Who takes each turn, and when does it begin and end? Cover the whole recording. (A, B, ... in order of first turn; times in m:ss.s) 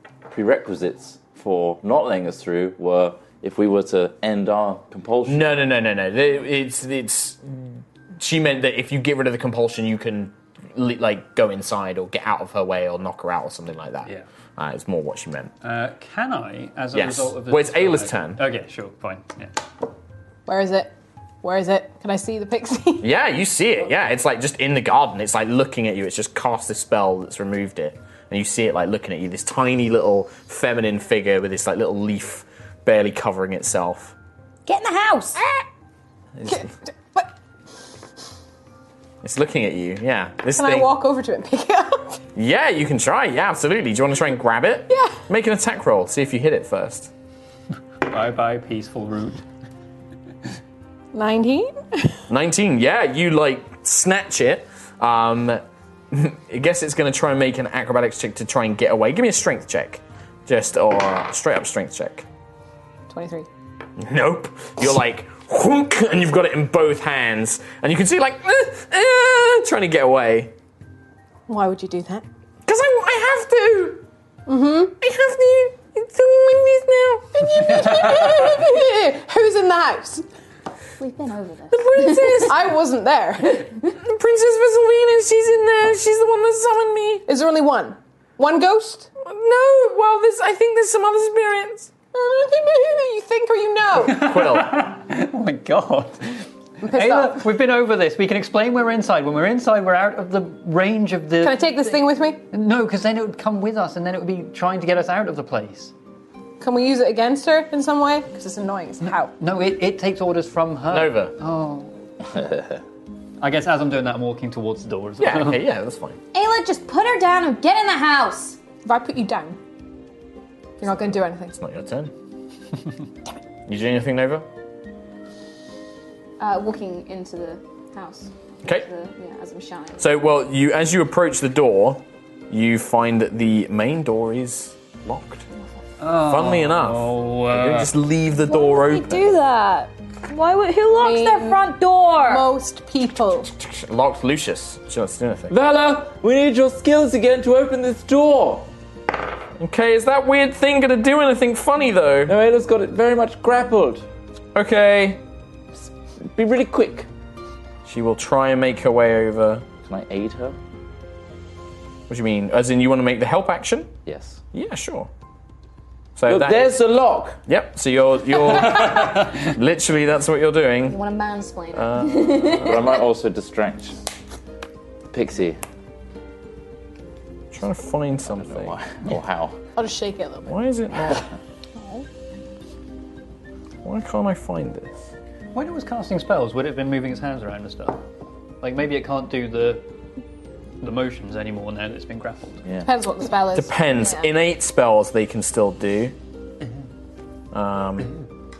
0:00.3-0:05.5 A
0:05.2-0:15.5 B
0:15.6-0:19.6 C
0:16.9-0:18.4 B
0:20.4-0:23.1 D
0:23.0-0:34.1 B
0:34.7-0:35.4 E
0:36.4-0:37.3 D
0:39.2-0:40.9 B
0:40.6-0:42.2 D
0:42.4-0:47.1 B
0:44.9-0:45.2 D
0:48.0-0:49.4 C
0:51.1-0:52.2 D
0:52.3-1:02.2 B
1:03.1-1:03.5 D
1:04.0-1:10.5 B
1:11.5-1:12.2 D
1:12.7-1:14.0 B
1:14.4-1:15.0 D
1:15.0-1:17.4 B
1:17.3-1:20.2 D
1:21.0-1:22.5 E
1:21.7-1:22.5 B
1:22.4-1:23.7 D
1:23.9-1:27.2 B
1:27.3-1:29.1 D
1:29.2-1:31.9 B
1:32.1-1:34.2 D
1:34.0-1:45.9 C
1:34.1-1:34.9 B
1:36.8-1:37.4 D
1:41.4-1:42.4 D
1:46.6-1:49.3 D
1:49.4-1:51.9 C
1:50.9-1:51.3 B
1:52.3-1:52.8 A
1:53.4-1:55.6 C
1:55.2-1:56.2 B
1:56.3-1:58.6 E
1:58.8-1:59.6 D
2:00.8-2:01.5 D
2:01.5-2:02.1 B
2:03.7-2:04.4 B
2:06.4-2:10.0 E
2:10.0-2:15.5 B
2:16.0-2:17.9 C
2:16.1-2:19.4 B
2:18.5-2:22.5 E
2:20.9-2:21.6 D
2:22.2-2:23.5 D
2:23.4-2:25.5 B
2:25.5-2:28.7 A
2:29.6-2:32.3 B
2:32.2-2:34.0 A
2:34.5-2:35.2 B
2:35.8-2:37.1 A
2:37.8-2:39.6 B
2:39.8-2:40.6 A
2:42.1-2:43.9 B
2:44.0-2:44.4 A
2:44.5-2:45.1 B
2:46.2-2:46.7 B
2:46.3-2:47.4 A
2:47.5-2:51.0 B
2:50.9-2:52.9 E
2:51.7-2:52.8 B
2:52.6-2:54.0 A
2:55.1-2:55.6 A
2:57.5-2:58.8 B
2:58.3-2:59.6 A
2:59.8-3:00.5 D
3:00.4-3:01.3 B
3:03.8-3:05.0 B
3:05.5-3:08.0 C
3:08.6-3:09.9 C
3:10.8-3:12.6 C
3:12.8-3:14.3 D
3:13.5-3:16.2 B
3:17.5-3:18.1 B